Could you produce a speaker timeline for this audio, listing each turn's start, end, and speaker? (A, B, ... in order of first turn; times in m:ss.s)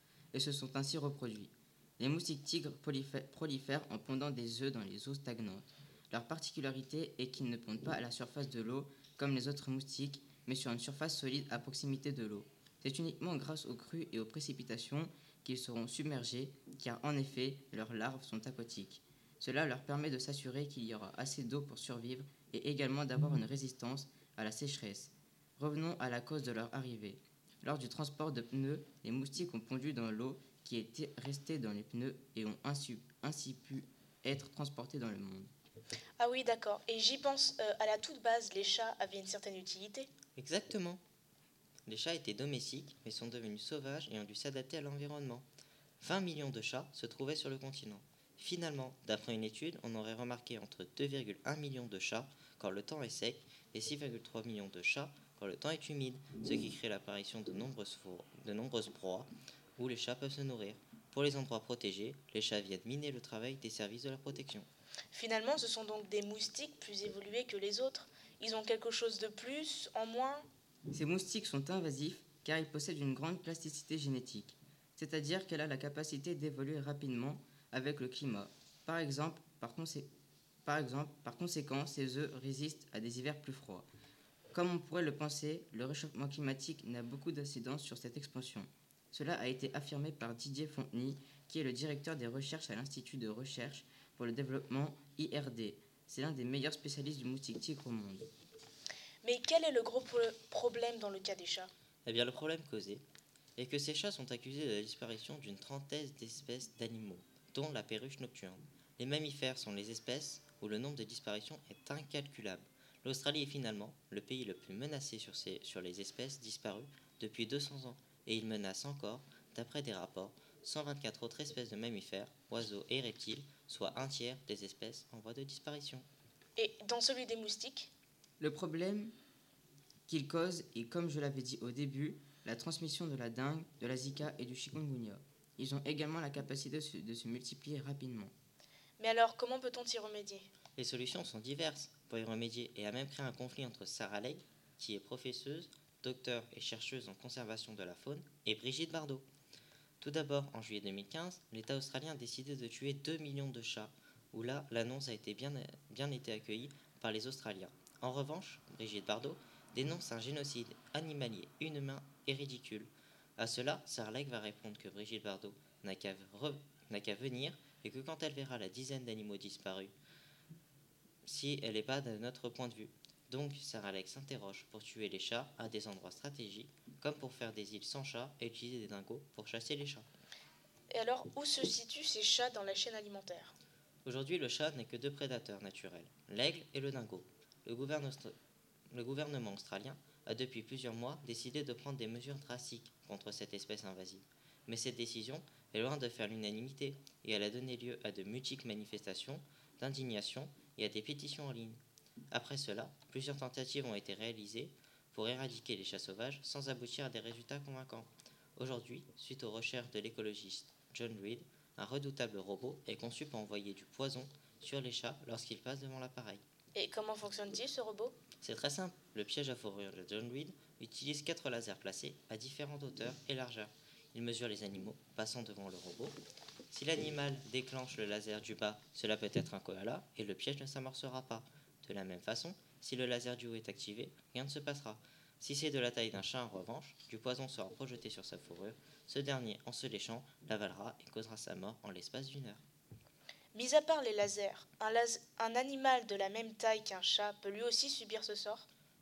0:00.3-0:35.5 A
0:36.2-0:40.1 B
0:40.4-0:41.0 C
0:41.9-0:45.4 C
0:46.0-1:04.7 C
1:05.1-1:10.4 B
1:10.9-1:20.1 A
1:20.6-1:23.9 A
1:24.5-1:38.3 A
1:39.2-1:41.7 B
1:42.0-1:43.0 C
1:43.6-2:06.0 C
2:06.6-2:07.9 B
2:08.4-2:09.1 A
2:10.1-2:18.3 A
2:19.0-2:20.5 B
2:20.8-2:29.2 C
2:30.0-2:49.9 C
2:51.2-3:00.1 C
3:00.9-3:03.5 B
3:04.0-3:08.3 C
3:08.9-3:21.8 C
3:22.3-3:36.4 C
3:36.7-3:38.2 B
3:38.4-3:46.2 C
3:46.7-4:02.6 C
4:03.5-4:08.7 B